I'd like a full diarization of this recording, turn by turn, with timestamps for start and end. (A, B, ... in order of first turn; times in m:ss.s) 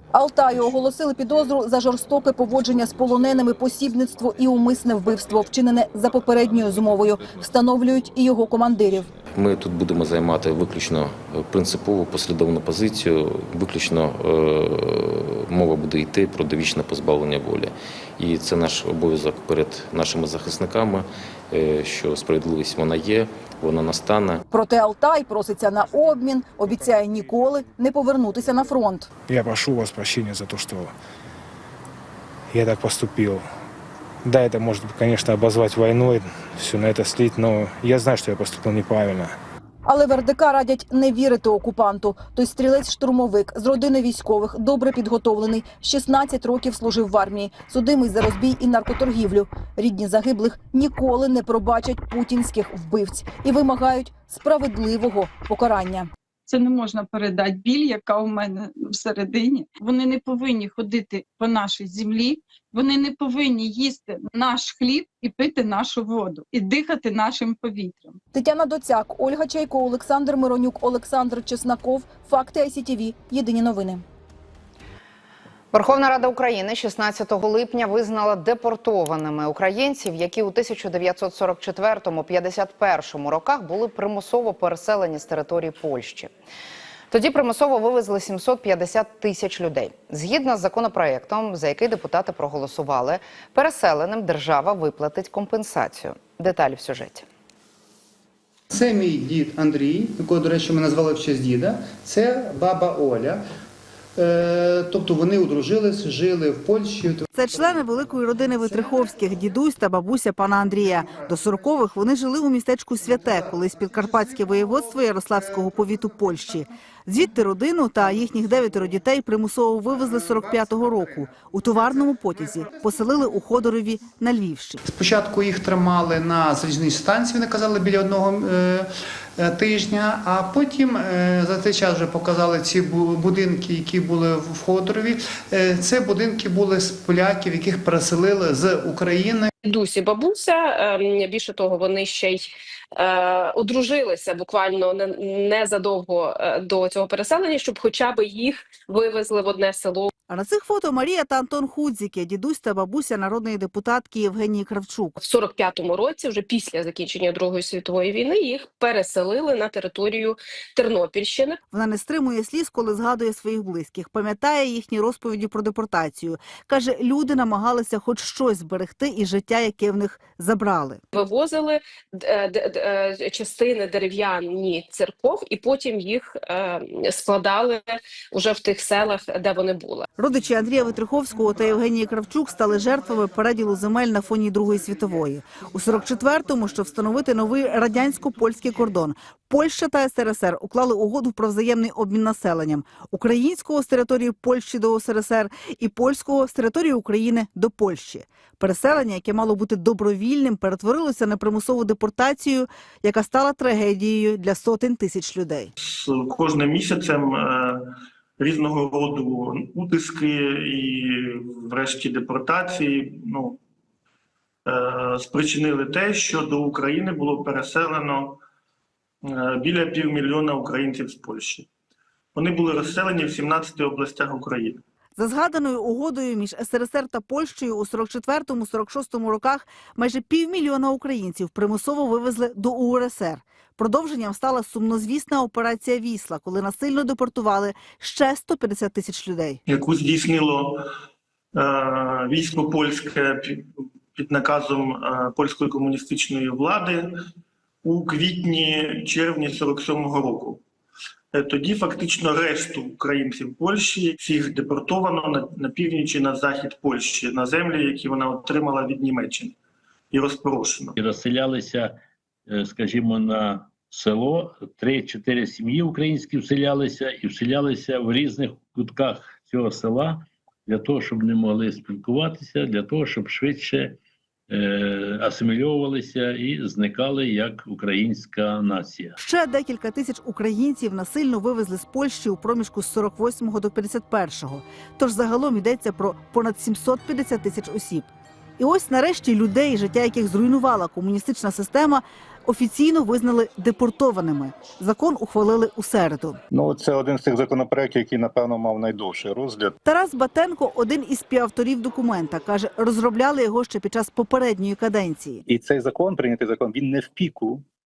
0:00.1-0:09.1 A
0:06.2-0:08.1 B
0:09.1-0:24.4 B
0:24.5-0:29.1 A
0:29.3-0:30.9 C
0:32.5-0:33.4 C
0:34.2-0:39.3 C
0:39.8-0:56.1 A
0:56.5-1:08.2 D
1:08.3-1:14.0 A
1:15.7-1:26.3 E
1:27.1-1:37.2 E
1:38.7-1:43.4 F
1:44.2-1:47.2 F
1:47.3-2:04.8 G
2:04.8-2:19.5 F
2:19.6-2:30.1 H
2:30.3-2:35.2 G
2:35.2-2:41.6 H
2:41.7-2:51.0 G
2:51.1-3:00.0 H
3:00.2-3:25.7 G
3:25.9-3:27.8 I
3:28.4-3:33.6 I
3:34.6-3:38.4 I
3:39.3-3:41.6 I
3:42.3-3:44.8 I
3:45.2-3:59.6 G
3:59.7-4:00.8 I
4:01.5-4:07.1 I
4:07.8-4:10.6 I
4:11.3-4:19.5 I
4:20.1-4:20.9 I
4:21.0-4:34.0 J
4:34.5-4:39.2 J
4:39.2-4:56.4 G
4:56.5-4:59.7 K
4:59.8-5:05.4 G
5:05.5-5:07.6 K